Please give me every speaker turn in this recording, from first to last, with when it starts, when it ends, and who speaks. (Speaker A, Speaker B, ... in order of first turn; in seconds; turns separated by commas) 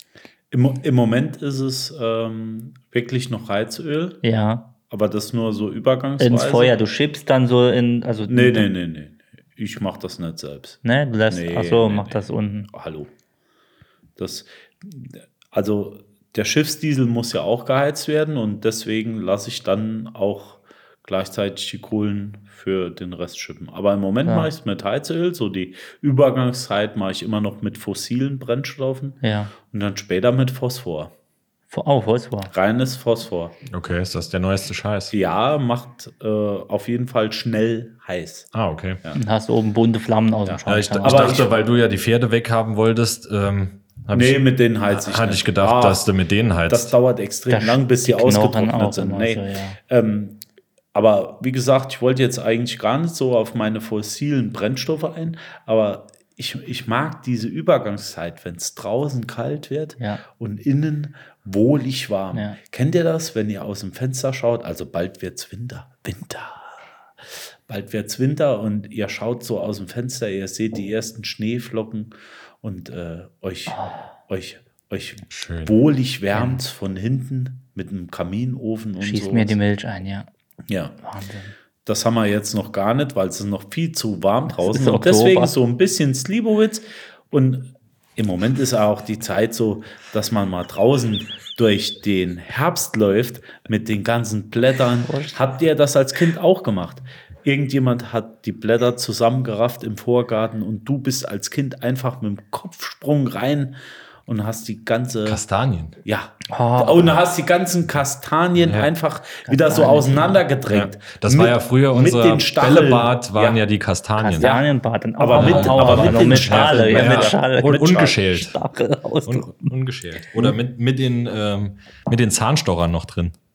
Speaker A: 0.5-4.2, Speaker B: 4.2-4.7, Speaker A: 4.9-6.8, Speaker B: 6.2-8.7, Speaker A: 8.3-13.1, Speaker B: 10.8-12.7, Speaker A: 14.2-31.1, Speaker B: 24.2-24.5, Speaker B: 29.2-29.5, Speaker B: 31.7-32.5, Speaker A: 32.5-33.6, Speaker C: 33.7-35.1, Speaker A: 35.1-39.2, Speaker C: 38.5-39.0, Speaker B: 39.1-41.4, Speaker A: 40.5-41.5, Speaker C: 40.7-46.9, Speaker A: 44.1-46.1, Speaker A: 46.7-50.4, Speaker B: 47.5-49.8, Speaker A: 50.9-66.8, Speaker B: 62.3-62.6, Speaker A: 67.7-79.6, Speaker B: 73.7-74.0, Speaker C: 75.3-75.8, Speaker B: 76.3-76.6, Speaker B: 79.0-80.3, Speaker A: 80.7-81.0, Speaker B: 81.0-81.5, Speaker A: 81.8-105.4, Speaker B: 84.6-85.5, Speaker B: 95.1-95.3, Speaker C: 105.3-106.0, Speaker A: 106.0-113.6, Speaker B: 106.5-107.2, Speaker C: 108.6-108.9, Speaker B: 109.5-110.4, Speaker C: 110.7-114.6, Speaker B: 114.2-119.7, Speaker A: 115.2-118.2, Speaker C: 115.4-118.6, Speaker C: 119.3-123.3